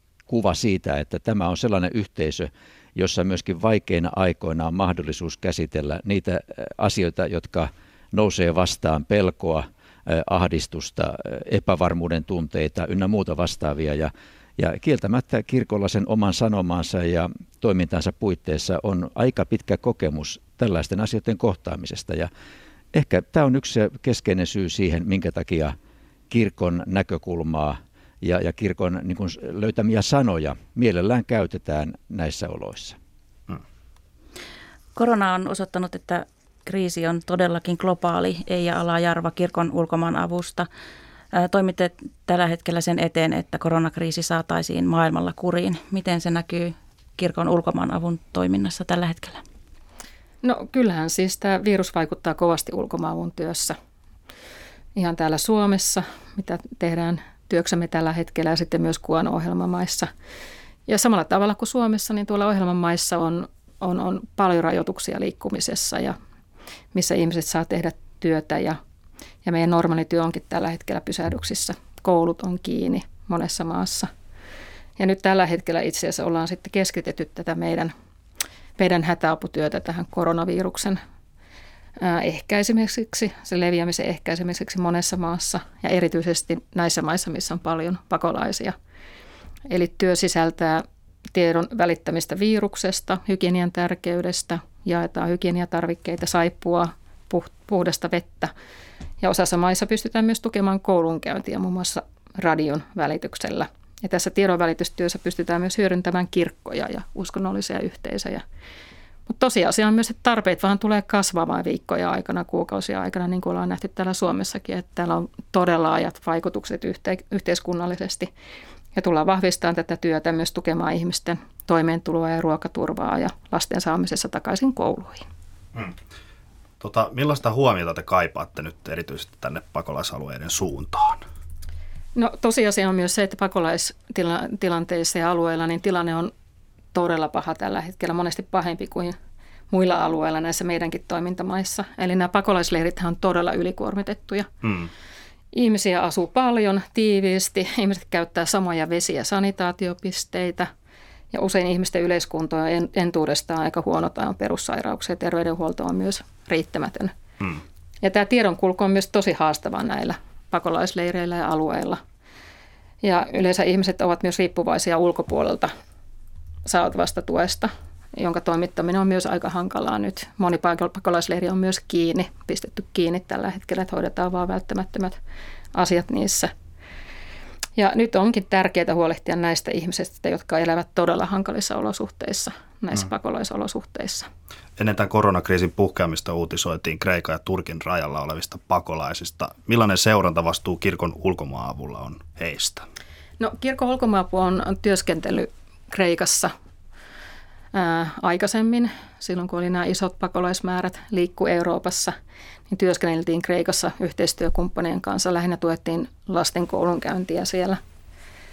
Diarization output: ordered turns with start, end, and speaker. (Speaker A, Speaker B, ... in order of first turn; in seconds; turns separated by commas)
Speaker A: 0.3-22.3, Speaker A: 22.9-25.8, Speaker A: 26.3-33.0, Speaker B: 35.0-40.7, Speaker B: 41.3-49.4, Speaker C: 50.4-53.8, Speaker C: 55.0-60.1, Speaker C: 60.9-66.2, Speaker C: 66.9-68.8, Speaker C: 69.4-74.1, Speaker C: 75.0-77.9, Speaker C: 78.8-81.0, Speaker C: 82.0-88.8, Speaker C: 89.7-98.5, Speaker C: 99.2-108.4, Speaker C: 109.3-118.3, Speaker C: 119.0-125.3, Speaker D: 126.8-131.2, Speaker C: 132.2-136.3, Speaker C: 136.9-139.2, Speaker C: 139.7-144.5, Speaker D: 144.6-144.9, Speaker C: 145.5-150.7, Speaker C: 151.3-157.1, Speaker C: 158.0-162.0, Speaker C: 163.0-165.7, Speaker C: 166.7-175.2, Speaker C: 175.7-176.5, Speaker C: 177.8-184.3, Speaker D: 184.8-192.8, Speaker C: 193.4-196.5, Speaker C: 197.7-202.2, Speaker C: 202.7-207.8